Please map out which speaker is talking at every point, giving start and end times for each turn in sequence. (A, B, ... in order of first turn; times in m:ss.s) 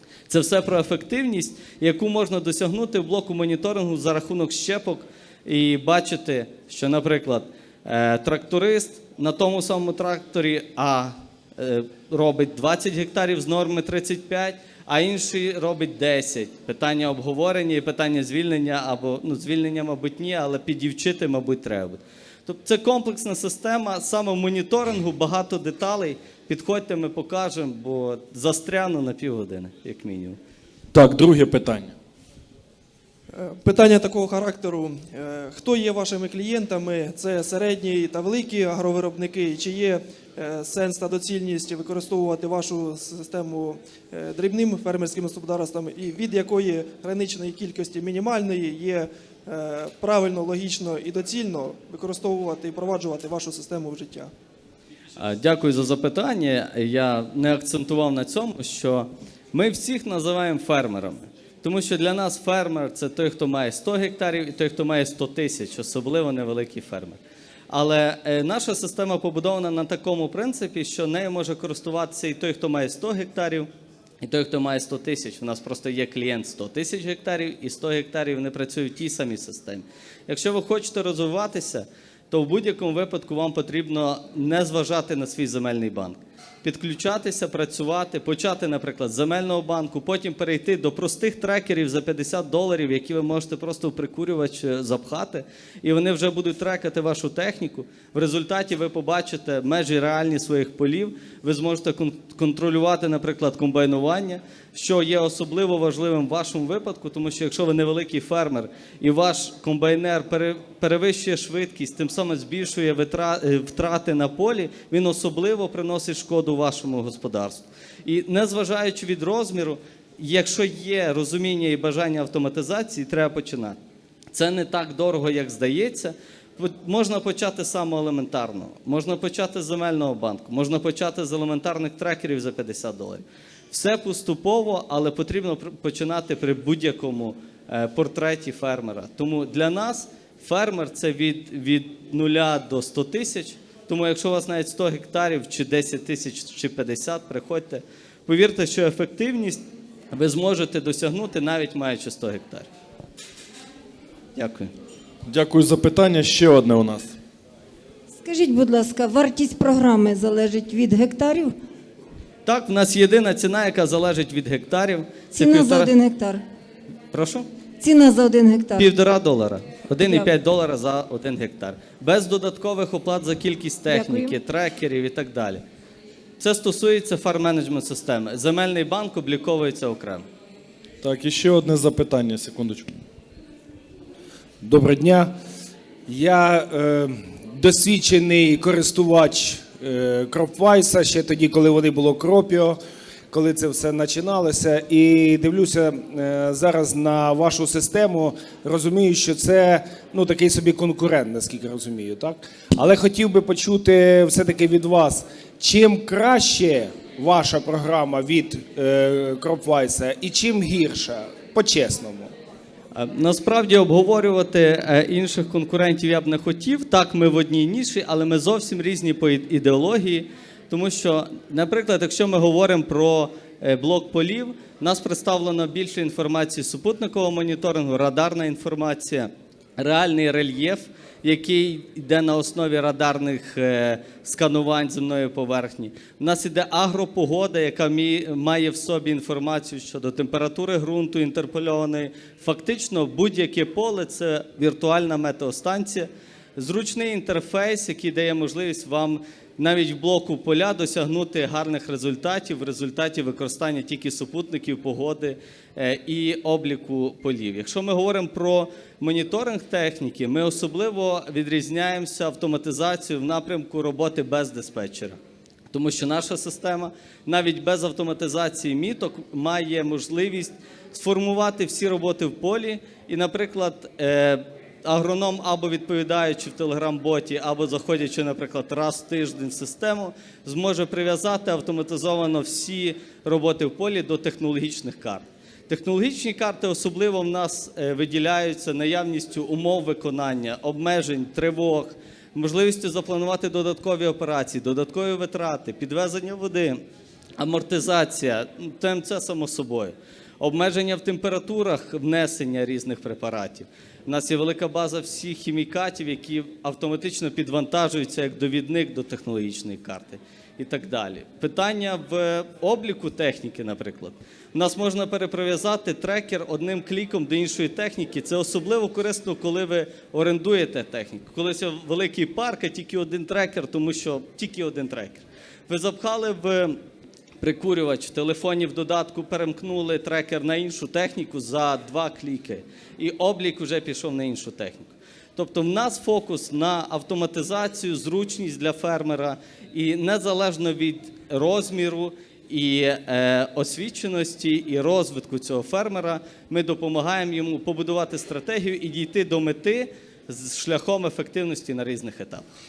0:00.3-0:30.4 A
0:30.9-0:31.9 B
0:33.3-0:54.3 C
0:55.2-1:07.2 A
1:07.7-1:13.7 A
1:14.2-2:03.8 A
2:04.3-2:32.7 A
2:34.4-2:34.7 A
2:35.3-2:37.1 B
2:38.2-2:41.5 D
2:42.4-2:45.9 A
2:45.3-2:46.4 D
2:47.1-2:47.4 A
2:47.8-2:48.9 D
2:48.8-2:55.6 A
2:50.0-2:50.3 D
2:53.9-2:54.4 D
2:56.4-3:00.2 A
3:01.0-3:02.9 B
3:04.6-3:05.3 E
3:06.1-3:12.8 E
3:13.3-3:32.3 E
3:32.9-4:25.2 A
4:25.7-4:56.8 A
4:57.4-5:26.8 A
5:27.4-5:52.4 A